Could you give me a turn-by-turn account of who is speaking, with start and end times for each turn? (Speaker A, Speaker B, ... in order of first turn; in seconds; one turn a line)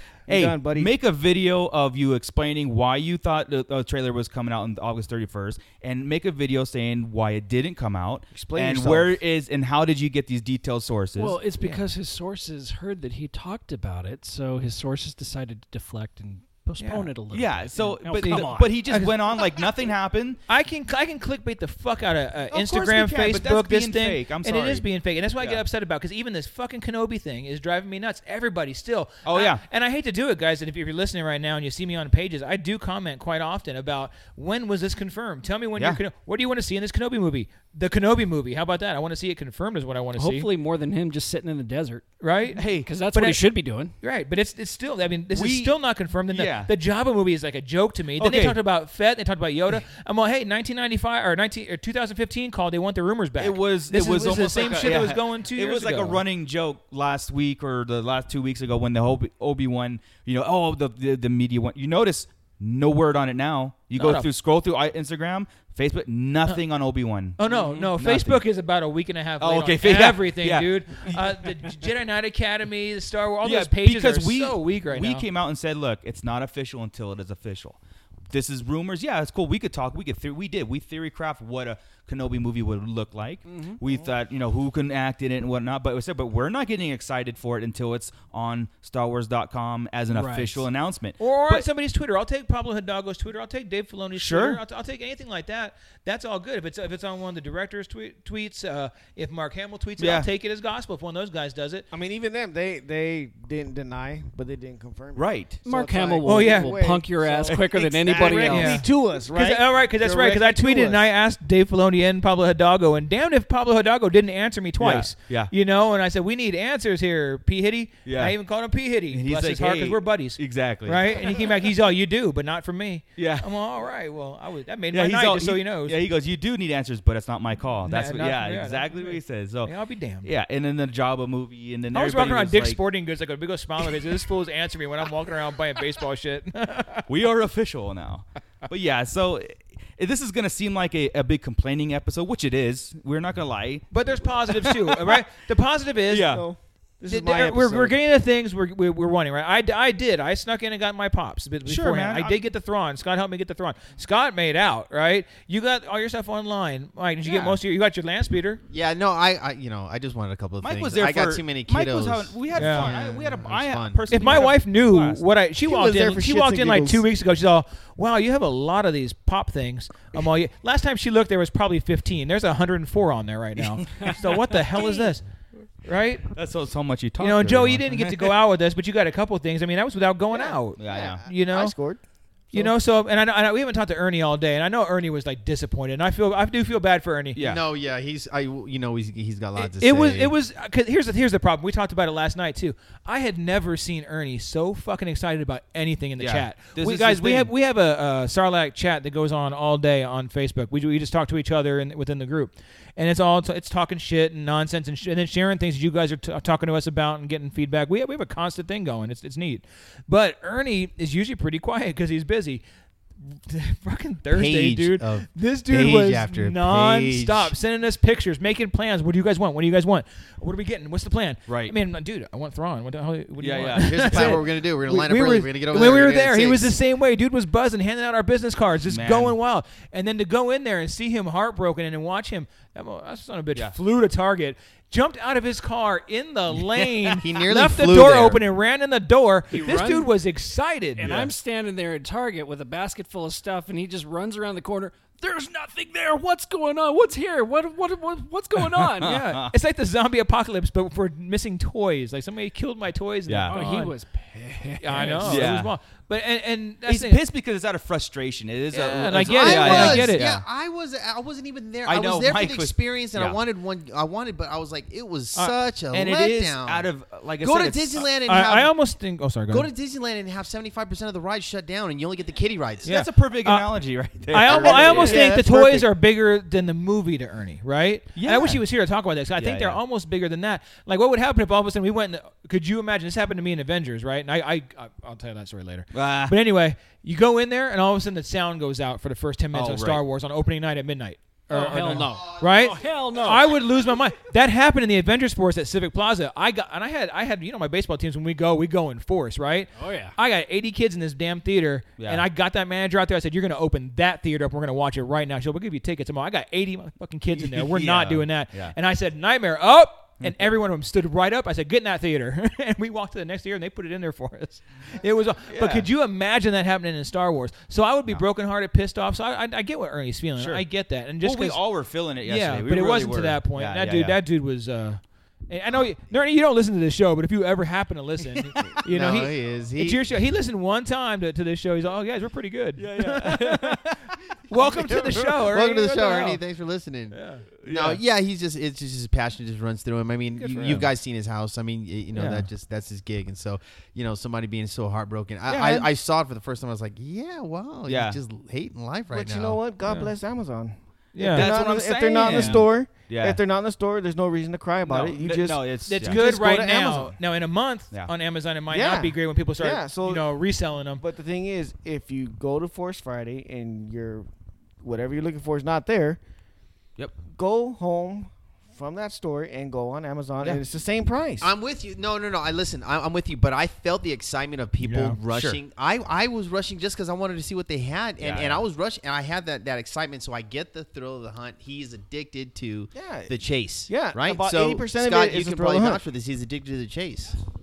Speaker A: 0.3-0.9
Speaker B: 0.3-11.4
Speaker A: 8.3-9.2
Speaker C: 11.2-18.8
Speaker D: 16.8-17.1
Speaker B: 17.3-20.4
Speaker D: 18.2-19.6
Speaker D: 20.5-40.5
Speaker B: 22.5-24.8
Speaker B: 29.2-29.6
Speaker C: 40.2-43.9
Speaker D: 42.2-42.6
Speaker B: 42.5-42.9
Speaker D: 43.1-43.4
Speaker D: 44.0-56.2
Speaker B: 45.3-45.8
Speaker B: 46.3-46.7
Speaker B: 48.2-48.6
Speaker B: 53.4-68.4
Speaker D: 64.0-64.3
Speaker D: 67.4-75.2
Speaker B: 69.4-71.4
Speaker B: 73.4-77.8
Speaker B: 78.3-91.7
Speaker C: 83.5-83.8
Speaker C: 90.1-90.6
Speaker D: 91.2-101.9
Speaker B: 94.1-94.6
Speaker B: 100.0-100.3
Speaker A: 101.9-111.0
Speaker B: 105.2-105.6
Speaker C: 105.6-108.8
Speaker D: 106.2-106.8
Speaker B: 107.5-108.4
Speaker D: 108.3-126.0
Speaker B: 114.8-115.5
Speaker B: 118.0-118.3
Speaker B: 119.1-121.5
Speaker B: 123.2-123.5
Speaker B: 124.9-129.7
Speaker D: 127.9-130.3
Speaker B: 130.2-132.8
Speaker D: 131.9-137.0
Speaker B: 137.1-145.2
Speaker D: 143.9-146.4
Speaker B: 146.1-146.4
Speaker A: 146.2-147.9
Speaker D: 147.1-158.6
Speaker B: 151.6-152.4
Speaker B: 157.3-157.6
Speaker E: 158.7-164.1
Speaker B: 160.6-165.2
Speaker D: 162.5-162.9
Speaker D: 164.1-175.2
Speaker A: 165.6-167.1
Speaker B: 173.8-174.1
Speaker B: 174.8-175.0
Speaker D: 175.8-176.3
Speaker B: 176.3-178.3
Speaker D: 177.2-181.7
Speaker A: 180.3-182.0
Speaker B: 180.8-181.2
Speaker D: 182.5-187.4
Speaker B: 187.3-187.6
Speaker E: 187.4-190.3
Speaker D: 189.6-212.6
Speaker B: 196.2-197.5
Speaker D: 213.2-241.1
Speaker E: 214.3-217.5
Speaker B: 221.5-221.7
Speaker B: 223.4-224.4
Speaker E: 223.8-226.7
Speaker B: 228.9-229.3
Speaker E: 237.1-238.4
Speaker C: 239.5-240.1
Speaker B: 241.0-241.3
Speaker C: 241.0-249.2
Speaker B: 248.6-249.5
Speaker D: 249.0-253.9
Speaker B: 253.3-253.6
Speaker C: 253.5-255.6
Speaker D: 254.8-257.2
Speaker B: 255.0-255.7
Speaker B: 256.9-260.4
Speaker D: 258.7-260.3
Speaker E: 259.1-268.7
Speaker B: 261.8-263.4
Speaker B: 265.9-268.1
Speaker D: 268.2-269.7
Speaker E: 269.5-272.9
Speaker B: 272.8-275.8
Speaker D: 272.8-321.6
Speaker E: 274.5-275.2
Speaker A: 274.5-275.5
Speaker B: 278.1-278.6
Speaker B: 279.4-279.8
Speaker B: 285.9-286.4
Speaker B: 289.5-290.0
Speaker C: 291.5-293.6
Speaker C: 299.7-300.1
Speaker B: 302.0-302.2
Speaker B: 307.4-308.7
Speaker B: 310.2-310.5
Speaker B: 315.5-315.9
Speaker B: 320.4-324.2
Speaker D: 322.2-333.9
Speaker B: 328.4-328.8
Speaker E: 328.8-330.0
Speaker B: 332.8-334.1
Speaker D: 334.5-336.4
Speaker E: 335.1-349.6
Speaker D: 337.1-337.5
Speaker B: 337.6-338.0
Speaker B: 340.6-340.9
Speaker D: 342.1-342.5
Speaker B: 345.5-345.9
Speaker B: 347.8-348.2
Speaker A: 349.1-357.1
Speaker D: 349.9-350.1
Speaker D: 351.1-351.5
Speaker B: 351.3-353.4
Speaker D: 352.1-352.6
Speaker B: 354.9-356.2
Speaker D: 355.9-361.0
Speaker A: 358.7-360.3
Speaker A: 361.0-364.3
Speaker A: 364.8-366.2
Speaker A: 367.3-371.5
Speaker E: 371.4-387.4
Speaker D: 374.8-375.2
Speaker B: 375.3-375.6
Speaker B: 378.2-378.6
Speaker A: 382.9-383.3
Speaker A: 383.9-386.0